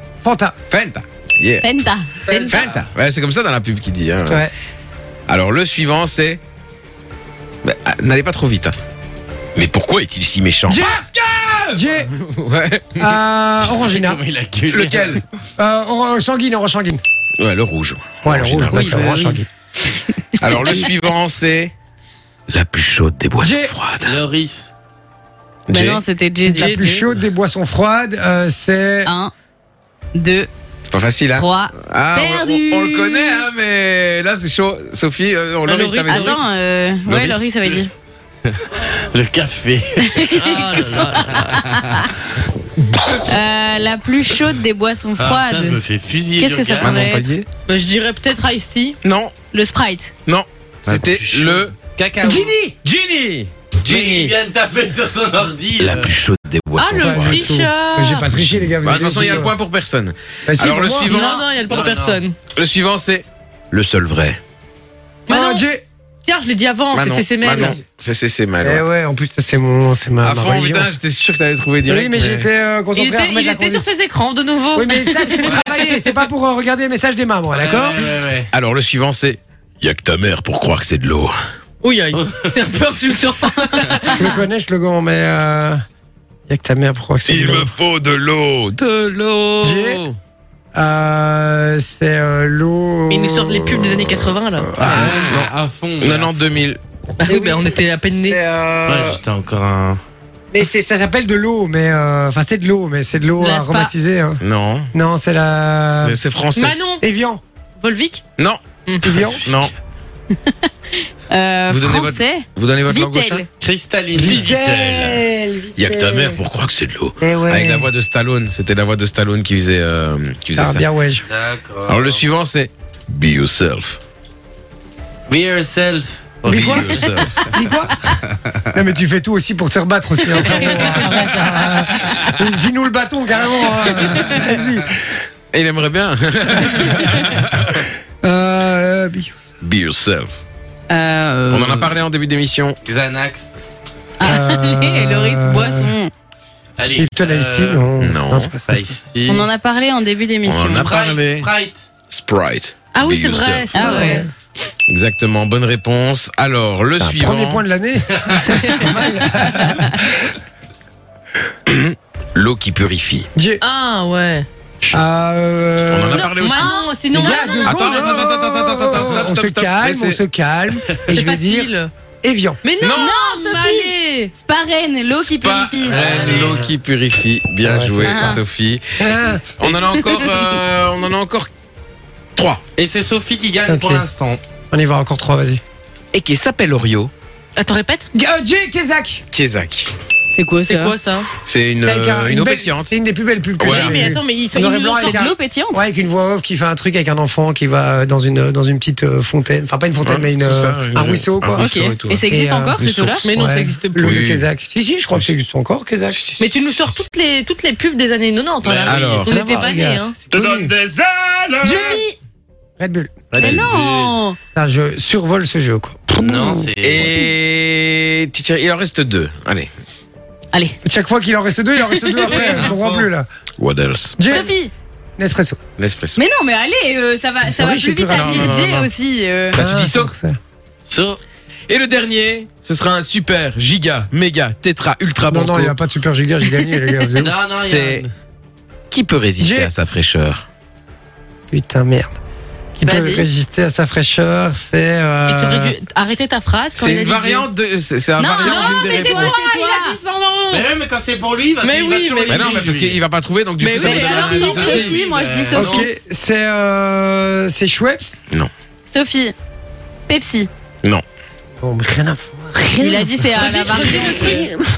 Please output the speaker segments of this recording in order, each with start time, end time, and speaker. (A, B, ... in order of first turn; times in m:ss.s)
0:00.2-0:00.6 A
0:00.7-0:01.7 B
0:01.6-0:02.6 C
0:02.3-0:02.9 D
0:02.5-0:04.5 B
0:05.3-0:06.4 B
0:07.6-0:08.8 B
0:09.6-0:13.1 B
0:10.7-0:12.1 A
0:13.0-0:14.2 A
0:13.7-0:15.2 D
0:14.7-0:15.2 B
0:15.6-0:17.0 A
0:17.4-0:19.1 B
0:18.2-0:19.5 A
0:18.7-0:19.4 C
0:20.4-0:21.7 B
0:20.5-0:20.8 C
0:22.5-0:24.2 B
0:23.4-0:23.7 A
0:24.0-0:24.7 D
0:25.7-0:27.0 C
0:25.7-0:29.1 A
0:25.7-0:26.0 B
0:26.5-0:27.0 E
0:29.0-0:29.3 C
0:30.2-0:30.5 C
0:30.9-0:36.4 B
0:31.4-0:33.5 C
0:35.6-0:36.5 E
0:36.0-0:37.9 C
0:37.1-0:37.5 B
0:38.5-0:41.9 D
0:40.1-0:40.8 C
0:40.4-0:41.5 E
0:41.8-0:42.1 C
0:43.2-0:45.8 C
0:45.2-0:47.0 D
0:46.4-0:47.3 C
0:46.8-0:47.5 B
0:47.7-0:49.0 E
0:49.0-0:49.4 B
0:49.5-0:50.1 C
0:50.3-0:51.8 B
0:50.9-0:52.6 D
0:52.2-0:52.8 A
0:52.8-0:54.3 B
0:53.8-0:56.2 D
0:55.8-0:57.6 B
0:56.8-0:58.3 E
0:57.0-0:59.5 A
0:58.8-1:01.5 B
1:00.5-1:01.1 A
1:01.0-1:02.4 E
1:01.7-1:02.2 D
1:02.6-1:04.4 B
1:05.3-1:05.7 E
1:05.3-1:05.8 A
1:06.2-1:07.8 E
1:06.9-1:08.8 B
1:08.6-1:11.0 A
1:10.2-1:12.5 B
1:11.9-1:13.9 A
1:13.0-1:15.8 E
1:14.7-1:18.1 A
1:17.5-1:18.5 D
1:18.5-1:21.4 B
1:21.8-1:24.4 E
1:22.1-1:22.8 D
1:24.2-1:25.8 A
1:26.5-1:27.7 A
1:27.3-1:30.1 B
1:29.6-1:30.0 A
1:30.7-1:35.4 A
1:33.1-1:35.1 E
1:34.9-1:36.4 D
1:34.9-1:35.5 B
1:36.0-1:37.6 B
1:37.2-1:38.4 E
1:38.2-1:39.2 B
1:38.9-1:40.0 D
1:40.5-1:44.4 A
1:43.4-1:43.9 C
1:44.4-1:44.9 B
1:44.9-1:46.2 A
1:45.9-1:46.8 B
1:46.6-1:47.0 E
1:47.0-1:47.4 A
1:47.8-1:48.2 E
1:48.4-1:49.7 B
1:49.0-1:49.5 A
1:51.3-1:53.5 C
1:51.7-1:53.4 B
1:53.6-1:55.2 D
1:54.1-1:56.4 A
1:54.2-1:54.8 B
1:55.8-2:00.9 B
1:57.2-1:57.9 A
2:00.6-2:01.2 A
2:01.3-2:02.2 D
2:01.9-2:04.0 B
2:05.3-2:07.6 D
2:06.5-2:07.3 B
2:06.5-2:08.0 A
2:08.3-2:08.6 D
2:08.7-2:15.0 A
2:10.4-2:10.9 C
2:15.5-2:17.9 B
2:18.2-2:19.4 A
2:19.6-2:20.4 B
2:20.9-2:22.0 C
2:21.5-2:22.8 B
2:22.8-2:23.6 D
2:24.2-2:26.1 C
2:24.2-2:25.9 A
2:26.8-2:27.9 D
2:27.0-2:28.9 A
2:28.0-2:28.5 B
2:28.7-2:29.5 D
2:29.3-2:30.9 C
2:30.4-2:31.5 B
2:30.7-2:31.9 D
2:32.1-2:33.9 B
2:32.9-2:34.2 E
2:33.7-2:34.3 C
2:33.8-2:34.3 A
2:34.9-2:37.6 B
2:37.0-2:40.3 A
2:41.7-2:43.3 B
2:43.4-2:43.6 A
2:43.6-2:44.5 E
2:44.9-2:46.3 A
2:45.9-2:46.8 B
2:46.1-2:47.4 C
2:46.4-2:48.1 E
2:47.1-2:51.7 A
2:47.6-2:50.2 B
2:51.1-2:51.9 E
2:52.2-2:52.6 A
2:52.6-2:54.3 E
2:52.8-2:53.1 B
2:52.9-2:56.0 C
2:55.1-2:58.8 B
2:55.8-2:56.7 D
2:56.0-2:56.7 A
2:57.6-2:58.4 A
2:58.0-2:58.4 C
2:59.0-3:00.1 A
2:59.6-3:01.5 B
3:02.4-3:02.6 B
3:02.8-3:04.4 D
3:03.7-3:04.0 A
3:04.7-3:05.6 A
3:06.1-3:07.1 B
3:07.6-3:08.1 E
3:08.1-3:09.2 A
3:09.3-3:09.9 B
3:10.3-3:11.0 C
3:10.7-3:11.3 E
3:11.4-3:12.9 B
3:11.8-3:26.2 A
3:13.6-3:14.2 B
3:13.7-3:15.2 E
3:14.9-3:15.8 C
3:20.0-3:22.2 B
3:21.5-3:23.2 C
3:22.8-3:23.1 B
3:23.2-3:24.2 E
3:24.0-3:24.5 B
3:26.4-3:30.2 E
3:28.6-3:29.3 D
3:28.8-3:29.4 B
3:29.3-3:30.8 A
3:31.6-3:32.2 C
3:32.8-3:33.3 A
3:33.3-3:34.2 D
3:33.4-3:34.4 C
3:34.6-3:36.7 A
3:36.2-3:37.1 D
3:36.8-3:39.7 B
3:40.8-3:43.3 A
3:41.8-3:42.6 C
3:42.3-3:43.1 D
3:43.6-3:44.2 B
3:44.2-3:44.5 A
3:44.2-3:44.7 C
3:45.2-3:45.6 A
3:45.8-3:46.2 B
3:46.2-3:49.6 C
3:47.4-3:48.7 A
3:48.1-3:48.9 B
3:49.5-3:50.4 A
3:49.5-3:50.1 B
3:50.9-3:51.2 D
3:51.7-3:55.7 B
3:55.3-3:57.4 A
3:57.2-3:58.1 D
3:57.5-3:58.1 B
3:58.9-4:00.5 B
3:59.4-3:59.7 A
4:01.5-4:02.2 A
4:02.8-4:05.8 A
4:02.8-4:03.2 C
4:05.3-4:07.5 E
4:06.8-4:09.4 B
4:08.2-4:10.0 C
4:08.4-4:10.6 E
4:10.5-4:13.0 D
4:11.6-4:12.6 E
4:12.3-4:15.0 B
4:13.6-4:15.0 E
4:13.8-4:15.9 C
4:14.0-4:15.9 D
4:15.6-4:18.2 A
4:18.9-4:19.3 C
4:20.1-4:20.5 C
4:21.6-4:24.4 A
4:22.7-4:24.5 C
4:23.4-4:24.5 E